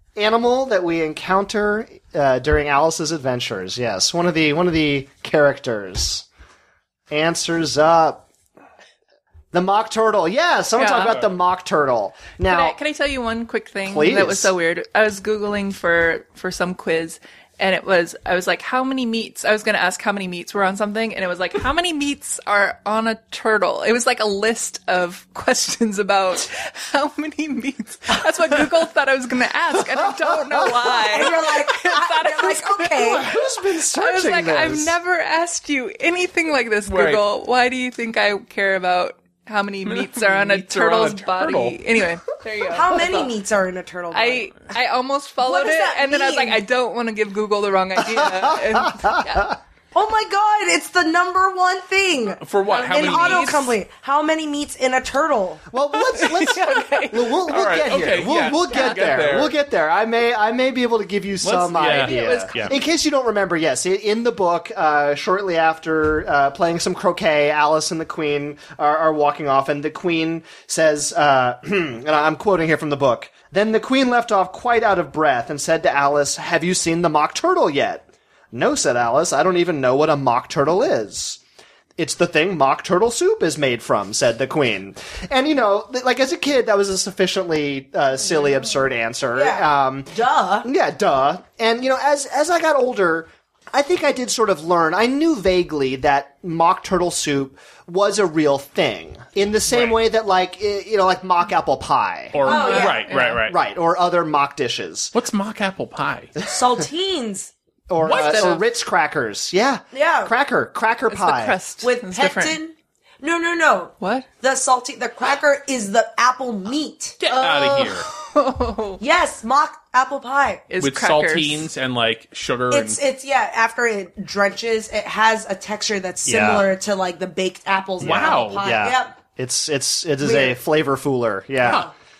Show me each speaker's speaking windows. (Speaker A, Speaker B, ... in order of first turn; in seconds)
Speaker A: 0.2-6.3, 7.1-8.2, 9.5-12.8, 13.8-14.5, 29.8-31.3, 32.9-35.0, 48.1-49.5, 55.7-81.4, 82.0-102.4, 103.2-105.1, 107.9-111.6, 126.2-126.7, 128.0-131.9
Speaker B: 10.8-11.2, 12.5-33.4, 33.9-43.3, 44.1-49.6, 52.6-53.7, 56.0-57.5, 58.7-59.2, 61.8-62.8, 102.4-103.4, 108.0-108.6, 111.1-112.6, 114.0-114.3, 117.3-119.0, 120.7-121.7
Speaker C: 11.0-11.3, 36.9-37.2, 39.8-41.8, 52.4-53.7, 57.5-59.5, 61.4-62.8, 99.7-100.0, 102.3-103.6, 105.1-106.3, 108.0-108.6, 117.2-118.1, 120.8-123.0, 128.0-128.7, 131.6-131.9
Speaker D: 31.0-33.3, 42.7-44.5, 45.4-46.6, 49.9-55.6, 89.3-90.7, 102.4-103.1, 106.5-107.5, 109.9-110.3, 111.8-117.2, 119.0-120.6, 122.7-129.2, 130.2-130.6, 131.6-131.9